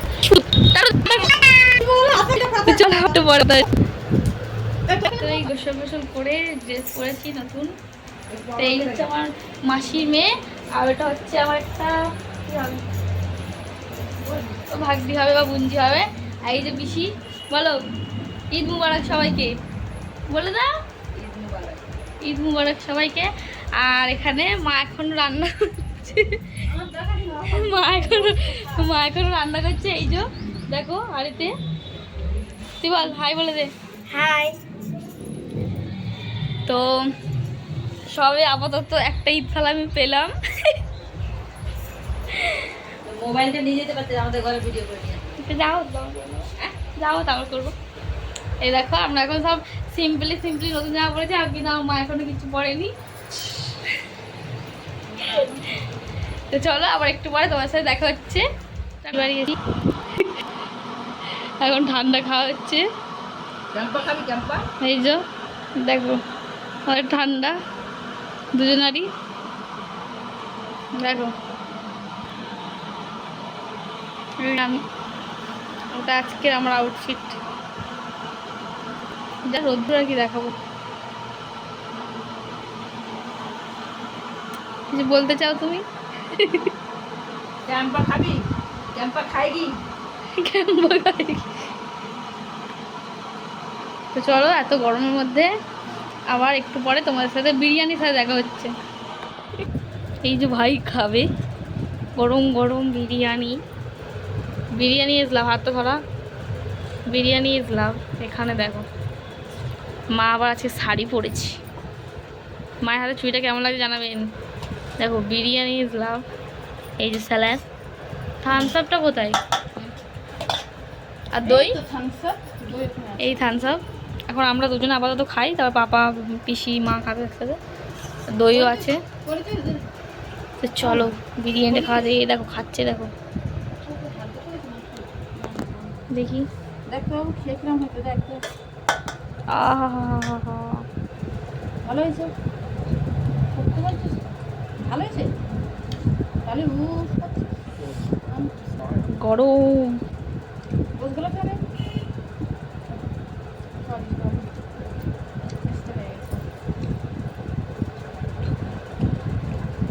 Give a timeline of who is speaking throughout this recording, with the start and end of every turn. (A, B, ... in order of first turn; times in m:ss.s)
0:00.2-0:01.3 A
0:01.3-0:03.1 B
0:02.6-0:03.7 A
0:04.9-0:05.5 B
0:05.2-0:07.7 A
0:08.3-0:09.1 B
0:08.6-0:12.8 A
0:14.7-0:17.8 A
0:18.5-0:19.5 A
0:20.3-0:20.7 A
0:22.2-0:26.6 A
0:26.6-0:28.9 B
0:27.5-0:31.5 A
0:32.8-0:34.6 A
0:36.7-0:37.1 A
0:38.1-0:40.8 A
0:42.3-0:42.7 A
0:45.4-0:47.7 A
0:48.6-0:52.9 A
0:55.1-0:55.6 B
0:55.2-0:55.5 A
0:56.5-0:58.4 A
0:59.0-0:59.6 A
1:01.6-1:02.8 A
1:03.7-1:04.6 B
1:04.8-1:05.2 A
1:05.8-1:06.2 A
1:06.8-1:07.6 A
1:08.5-1:09.1 A
1:11.0-1:11.3 A
1:14.4-1:14.8 A
1:16.0-1:17.4 A
1:19.4-1:20.5 A
1:24.9-1:26.7 A
1:27.7-1:28.4 B
1:30.4-1:31.5 A
1:34.1-1:35.5 A
1:36.3-1:38.7 A
1:40.2-1:41.2 A
1:42.2-1:43.6 A
1:44.8-1:46.0 A
1:47.1-1:48.8 A
1:50.1-1:51.6 A
1:52.8-1:54.3 A
1:55.0-1:56.2 A
1:57.0-1:57.6 A
1:58.4-1:59.4 A
2:01.3-2:01.8 A
2:01.4-2:03.4 B
2:03.2-2:07.6 A
2:08.3-2:09.0 A
2:08.5-2:09.8 B
2:10.6-2:13.1 A
2:10.8-2:11.1 B
2:11.6-2:12.1 B
2:13.8-2:16.0 B
2:16.1-2:16.5 A
2:16.9-2:18.4 B
2:19.5-2:20.8 A
2:21.8-2:22.3 B
2:23.5-2:24.2 B
2:24.8-2:25.3 B
2:26.4-2:27.5 B
2:28.3-2:28.7 B
2:29.1-2:30.0 A
2:31.0-2:31.6 B
2:33.8-2:34.5 B
2:35.6-2:36.4 B